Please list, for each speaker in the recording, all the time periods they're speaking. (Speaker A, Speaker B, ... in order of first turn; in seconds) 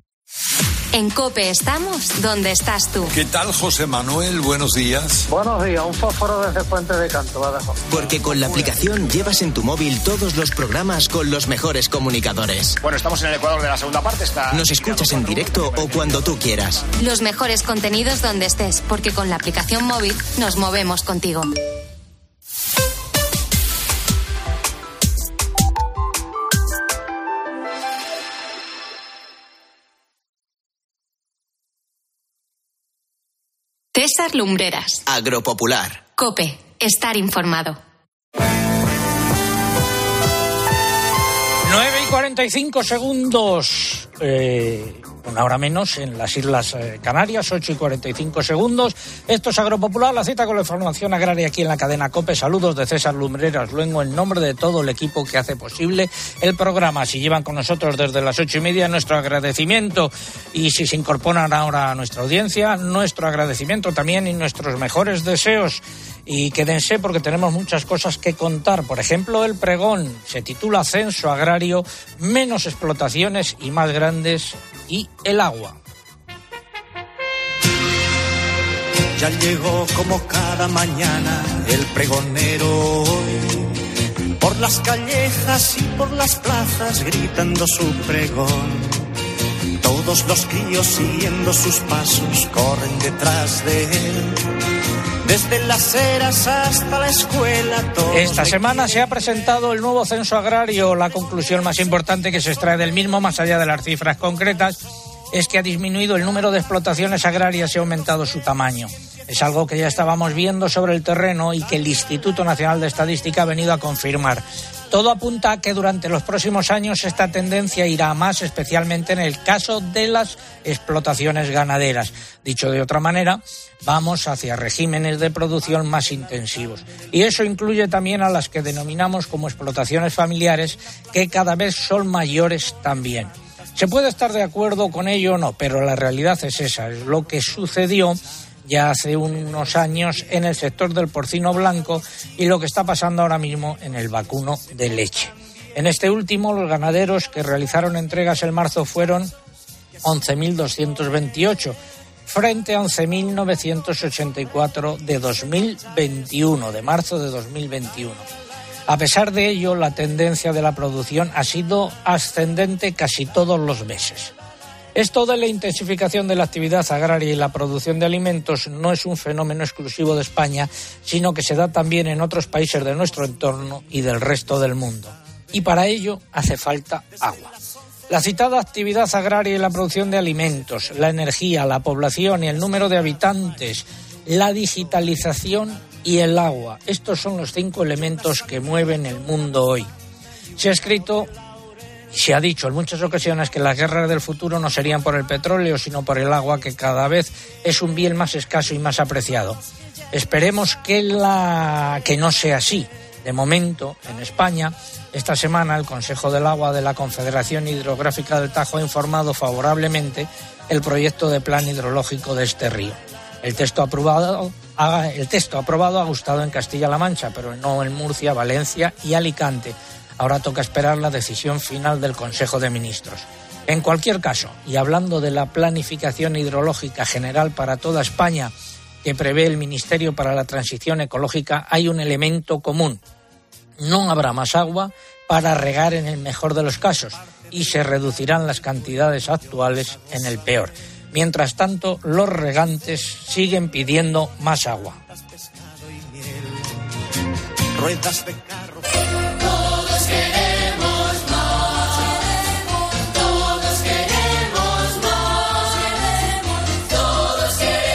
Speaker A: 0.9-3.1, 17.0-21.6, 33.9-35.0, 36.2-37.8
Speaker B: 3.1-5.3
Speaker C: 5.3-7.8
Speaker D: 7.9-12.8, 14.5-16.8, 35.1-36.0
Speaker E: 12.8-16.2
Speaker F: 41.6-75.8, 98.1-104.8, 105.3-149.3, 150.0-158.3, 158.9-164.3, 164.9-177.5, 178.1-189.9, 190.6-191.3, 192.1-199.6, 200.1-228.5, 229.0-233.0, 233.8-245.0
Speaker G: 79.2-83.8, 84.4-89.0, 89.8-94.5, 95.2-98.8, 247.8-248.7